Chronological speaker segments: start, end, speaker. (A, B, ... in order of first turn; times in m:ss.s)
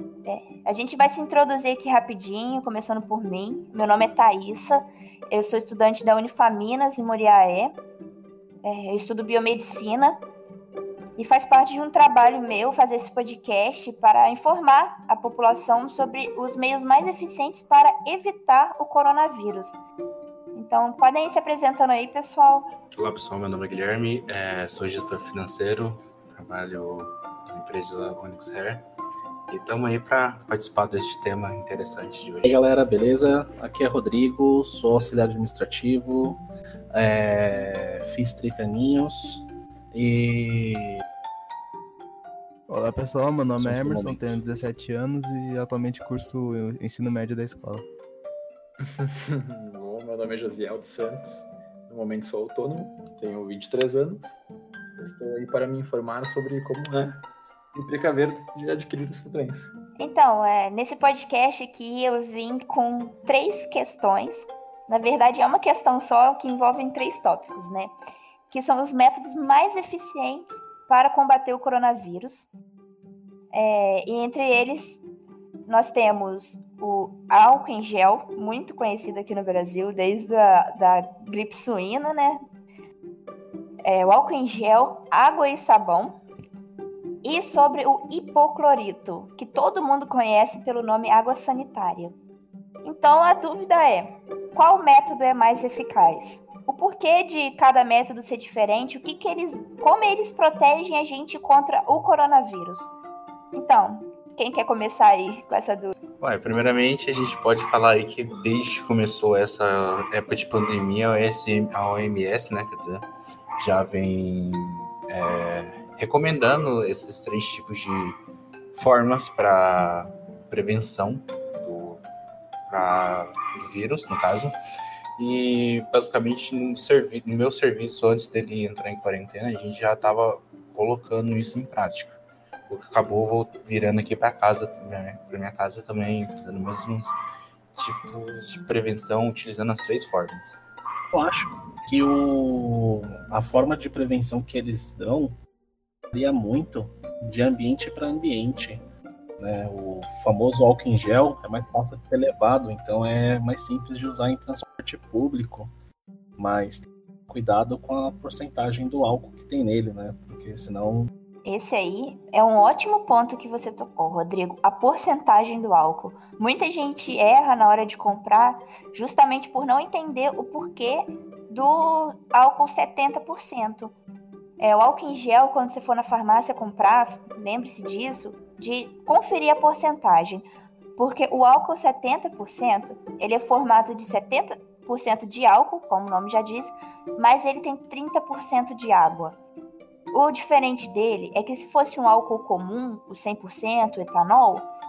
0:00.2-0:07.8 A
0:08.6-0:10.2 A
0:11.2-0:19.8 A
0:20.5-0:22.7 A
0:22.9-0:28.8 B
0:29.5-0:32.6 B
0:32.4-0:36.4 C
0:36.9-0:41.0 C
0:42.7-0:47.8 D
0:43.6-0:44.4 C
0:48.9-0:54.4 E
0:55.0-0:57.2 E
0:57.7-0:59.7 E
1:00.0-1:07.9 A
1:08.5-1:12.5 A
1:13.5-1:15.0 A
1:15.7-1:22.4 A
1:23.8-1:26.2 A
1:27.2-1:32.1 A
1:32.8-1:42.9 A
1:43.5-1:45.9 A
1:46.2-1:53.1 B
1:53.6-1:58.2 B
1:58.7-2:02.0 B
2:02.7-2:04.5 B
2:05.2-2:17.1 B
2:17.8-2:20.6 B
2:21.1-2:25.3 C
2:26.1-2:28.8 C
2:29.4-2:35.7 C
2:36.4-2:41.1 C
2:41.4-2:53.9 A
2:54.6-3:00.4 A
3:01.0-3:09.4 A
3:10.1-3:14.7 A